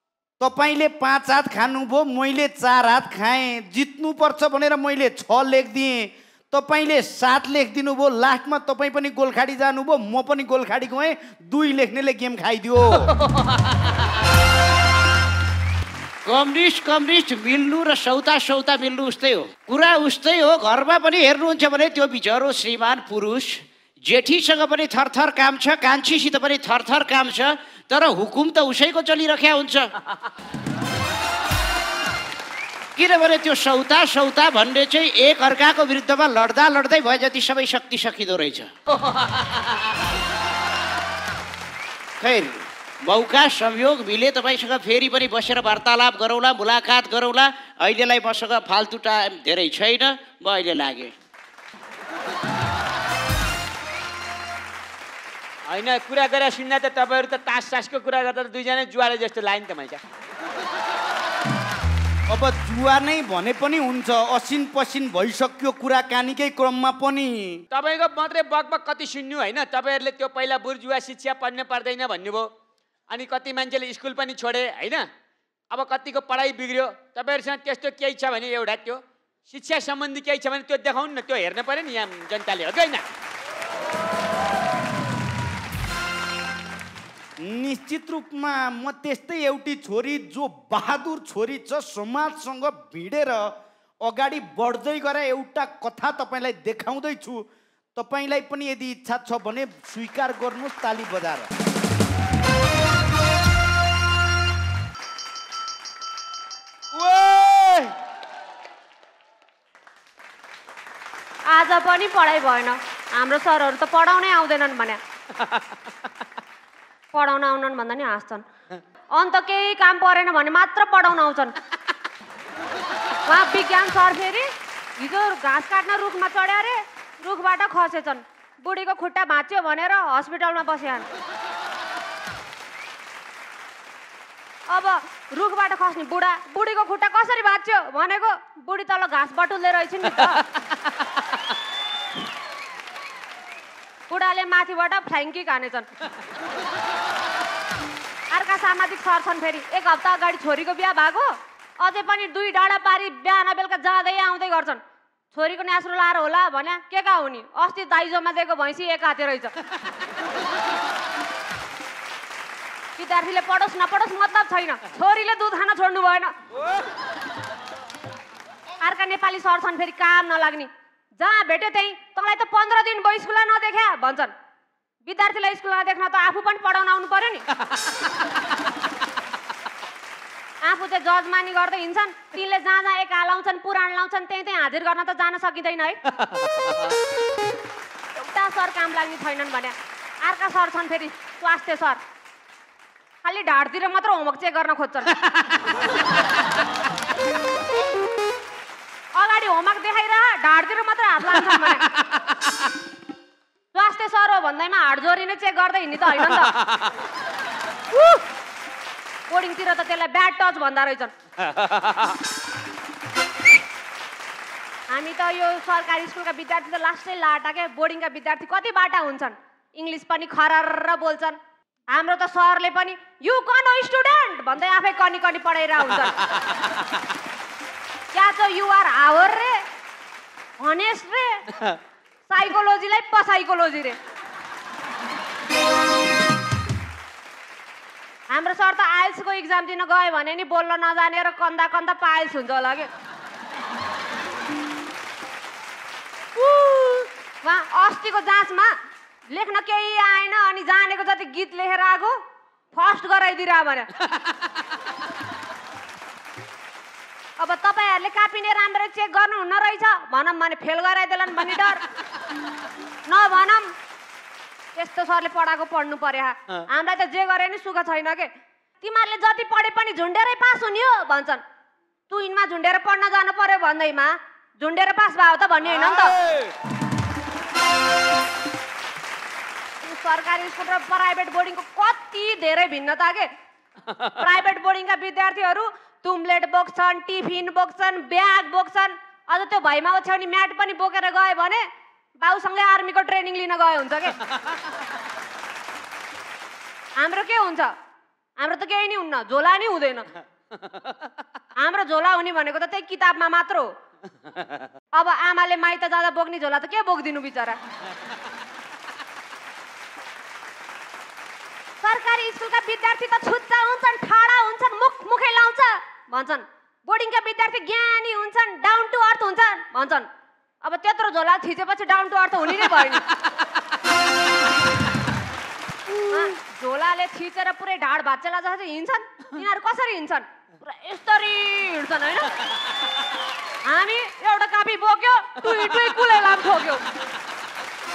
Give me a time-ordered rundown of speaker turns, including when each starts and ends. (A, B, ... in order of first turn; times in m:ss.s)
0:00.4-0:13.1 A
0:16.2-0:29.9 B
0:33.0-0:38.7 B
0:42.2-0:51.1 B
0:55.7-1:00.0 C
1:02.3-1:07.6 A
1:07.7-1:12.5 C
1:13.1-1:15.1 C
1:15.7-1:23.0 C
1:27.4-1:33.5 A
1:34.0-1:37.4 A
1:38.0-1:41.5 A
1:47.0-1:47.9 C
1:51.5-1:55.0 D
1:57.1-1:58.4 D
1:59.1-2:01.5 D
2:03.3-2:11.1 D
2:14.7-2:20.4 D
2:24.1-2:25.9 D
2:28.3-2:34.8 D
2:35.3-2:39.5 D
2:43.0-2:46.3 D
2:48.8-2:54.3 D
2:55.0-2:57.4 D
3:00.6-3:06.0 D
3:08.2-3:12.0 D
3:13.2-3:15.1 D
3:19.2-3:21.8 D
3:23.7-3:26.5 D
3:26.2-3:26.9 C
3:27.9-3:28.2 D
3:29.3-3:31.1 D
3:31.4-3:32.2 C
3:34.9-3:41.4 D
3:41.9-3:46.2 D
3:48.1-3:49.6 D
3:50.6-3:51.4 D
3:52.3-3:54.0 D
3:58.3-4:02.9 D
4:06.4-4:08.7 D
4:09.3-4:12.2 D
4:12.7-4:13.9 D
4:17.4-4:21.8 D
4:23.1-4:23.7 D
4:24.8-4:28.3 D
4:28.8-4:31.4 D
4:32.1-4:36.2 D
4:35.6-4:36.5 C
4:39.8-4:43.3 D
4:44.2-4:51.6 D
4:52.2-4:54.1 D
4:57.0-4:57.7 D
4:58.4-5:00.0 D
5:01.6-5:03.7 D
5:05.0-5:07.6 D
5:11.8-5:20.1 D
5:20.6-5:23.0 D
5:26.1-5:32.3 D
5:33.6-5:36.8 D